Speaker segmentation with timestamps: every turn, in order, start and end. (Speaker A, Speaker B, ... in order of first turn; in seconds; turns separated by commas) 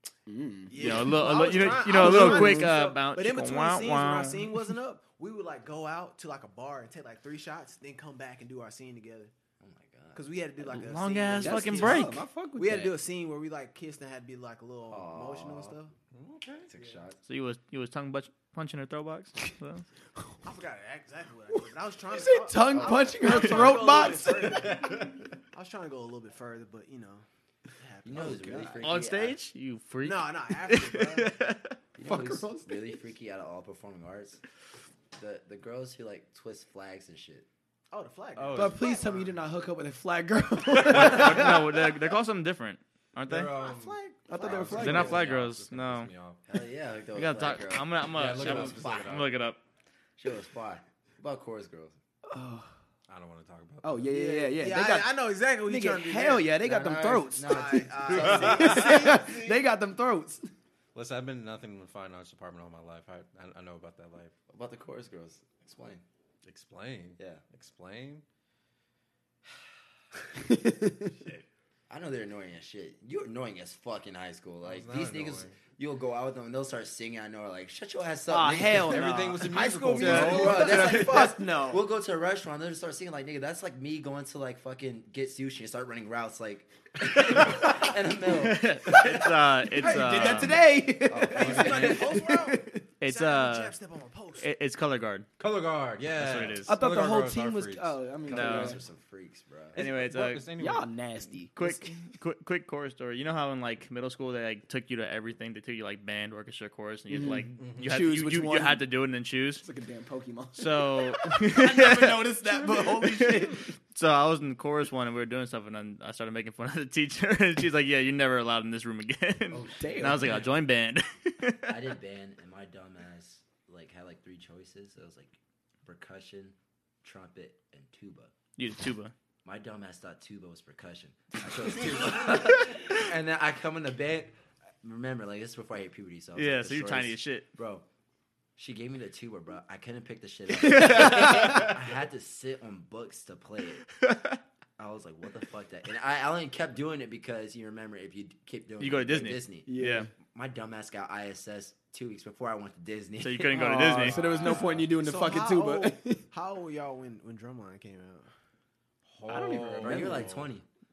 Speaker A: 0.3-2.8, Speaker B: 0.7-9.3, Speaker C: 0.7-4.5, Speaker D: 9.6-10.2, Speaker B: 10.1-15.9, Speaker C: 10.6-12.2, Speaker A: 11.4-13.0, Speaker D: 14.9-15.7, Speaker E: 16.1-16.7, Speaker D: 16.7-17.2, Speaker B: 16.8-17.0, Speaker C: 17.2-19.8, Speaker B: 20.4-27.2, Speaker A: 22.1-24.9, Speaker D: 22.7-23.3, Speaker E: 23.5-25.2, Speaker B: 27.8-28.8, Speaker D: 28.0-29.4, Speaker A: 28.1-28.8, Speaker C: 28.8-31.8, Speaker B: 30.0-31.3, Speaker D: 31.9-34.4, Speaker A: 32.0-32.8, Speaker D: 35.2-37.5, Speaker B: 37.9-39.3, Speaker E: 38.4-39.1, Speaker A: 38.5-41.8, Speaker C: 40.9-43.5, Speaker E: 43.3-46.4, Speaker B: 43.6-45.2, Speaker A: 44.3-45.2, Speaker C: 44.8-46.1, Speaker D: 46.5-49.2, Speaker C: 47.1-49.6, Speaker E: 48.1-49.3, Speaker D: 50.2-52.0, Speaker A: 52.3-52.7, Speaker E: 53.1-54.1, Speaker A: 53.8-60.5, Speaker B: 54.1-56.5, Speaker D: 56.6-59.0, Speaker B: 57.5-59.6, Speaker E: 58.2-58.8, Speaker E: 61.0-64.3, Speaker D: 64.5-66.0, Speaker E: 66.4-68.2, Speaker D: 67.2-67.4, Speaker A: 70.4-71.1, Speaker E: 71.2-71.5, Speaker D: 71.9-79.1, Speaker E: 74.6-75.5, Speaker A: 78.3-81.8, Speaker E: 78.7-80.8, Speaker B: 79.5-81.4, Speaker D: 80.0-89.1, Speaker C: 88.3-90.6, Speaker A: 88.9-92.8, Speaker B: 89.8-90.6, Speaker D: 91.0-92.3, Speaker B: 91.3-94.5, Speaker E: 91.5-91.8, Speaker C: 93.0-93.7, Speaker C: 94.4-95.3, Speaker E: 95.4-98.4, Speaker C: 96.1-96.8, Speaker A: 96.7-98.8, Speaker D: 98.3-99.8, Speaker C: 98.3-98.8, Speaker E: 99.7-100.9, Speaker C: 99.8-100.5, Speaker A: 100.6-102.0, Speaker C: 101.5-109.6, Speaker A: 107.1-108.9, Speaker E: 107.6-108.0, Speaker A: 109.6-113.7, Speaker C: 110.5-121.7, Speaker D: 119.5-120.4, Speaker A: 119.8-120.5, Speaker D: 121.7-128.3, Speaker C: 128.6-129.1, Speaker D: 129.4-137.8, Speaker C: 136.4-137.4, Speaker D: 138.6-143.9, Speaker C: 140.6-141.7, Speaker A: 140.7-141.7, Speaker C: 144.0-144.3, Speaker D: 144.8-149.7, Speaker C: 148.8-150.1, Speaker A: 149.7-150.1, Speaker D: 150.3-153.6, Speaker C: 153.2-154.2, Speaker A: 153.5-156.2, Speaker E: 154.0-154.9, Speaker B: 154.4-158.3, Speaker E: 159.1-160.5, Speaker A: 159.3-160.3, Speaker D: 159.8-160.6